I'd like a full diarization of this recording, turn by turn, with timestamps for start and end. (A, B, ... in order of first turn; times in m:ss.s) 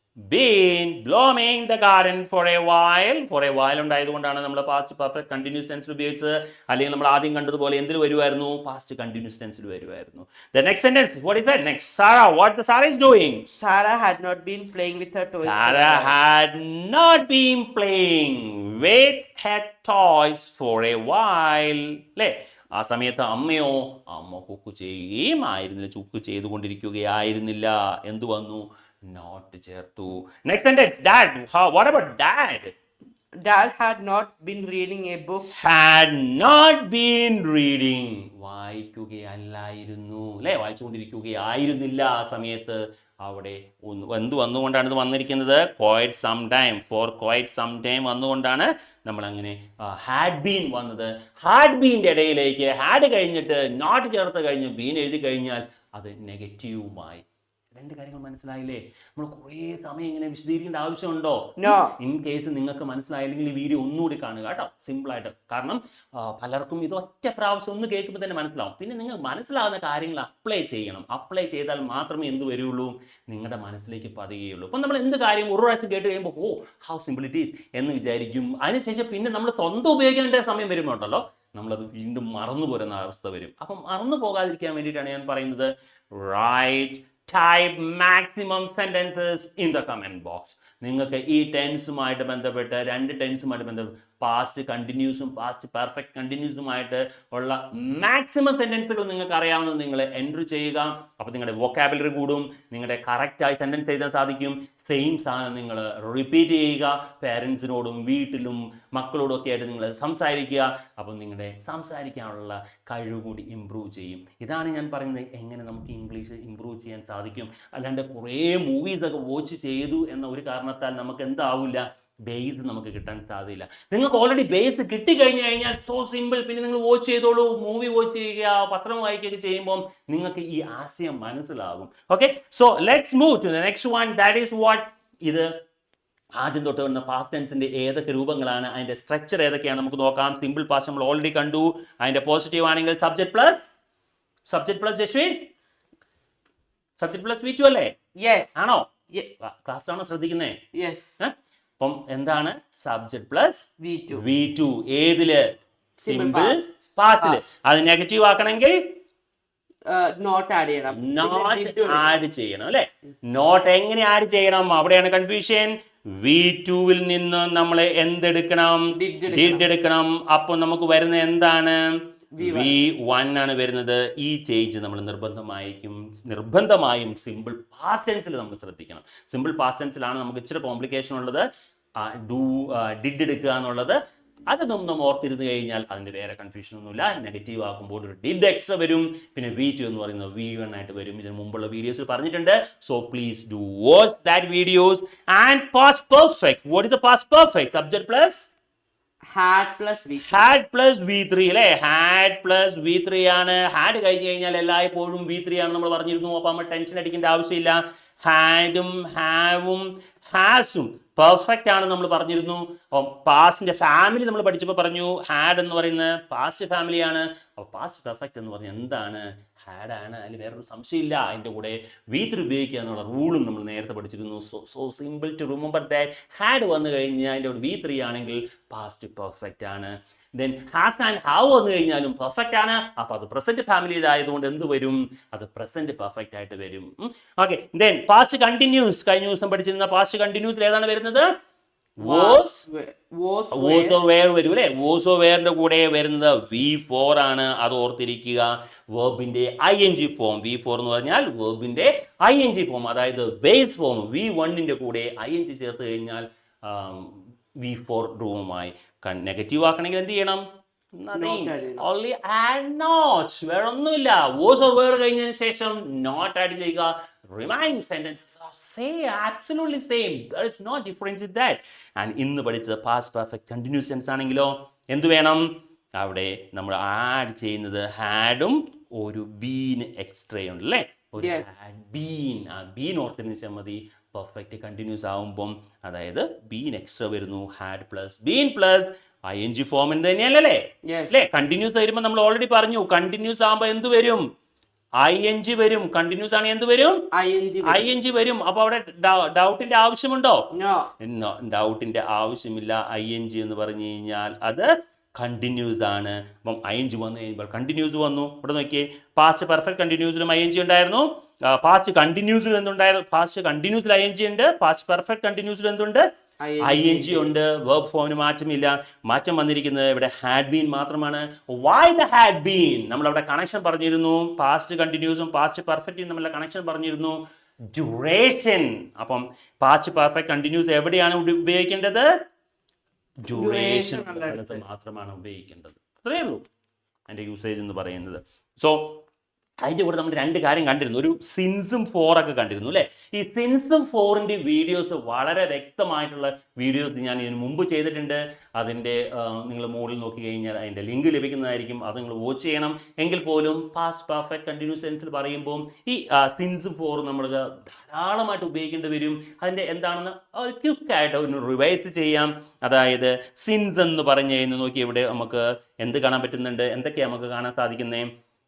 0:00.3-0:13.4 A
0:13.4-0:16.1 B
0:15.4-0:32.7 A
0:33.4-0:35.5 B
0:35.5-0:57.2 A
0:57.7-2:15.5 A
1:01.6-1:01.9 B
2:16.4-2:23.8 A
2:24.4-2:25.5 A
2:27.0-2:27.9 A
2:28.2-2:29.3 B
2:28.6-2:28.9 A
2:29.4-2:30.6 A
2:30.7-2:31.2 B
2:31.2-2:39.0 A
2:33.8-2:34.2 B
2:36.0-2:37.5 B
2:39.9-2:42.2 B
2:40.9-3:01.4 A
2:48.9-2:49.7 B
2:52.4-2:52.8 B
3:02.0-3:18.5 A
3:19.2-3:20.5 B
3:20.2-4:01.3 A
4:02.0-4:02.7 A
4:02.0-4:04.0 B
4:03.5-4:20.4 A
4:21.0-4:54.2 A
4:21.1-4:21.8 B
4:41.2-4:41.5 B
4:50.8-4:51.2 B
4:55.0-4:57.1 A
4:57.1-4:57.9 B
4:57.6-5:00.5 A
5:00.5-5:00.9 B
5:01.0-5:16.1 A
5:16.4-5:17.3 B
5:16.6-5:27.2 A
5:27.7-5:32.1 A
5:33.2-5:36.4 A
5:33.3-5:34.6 B
5:37.1-5:39.0 A
5:39.6-6:08.1 A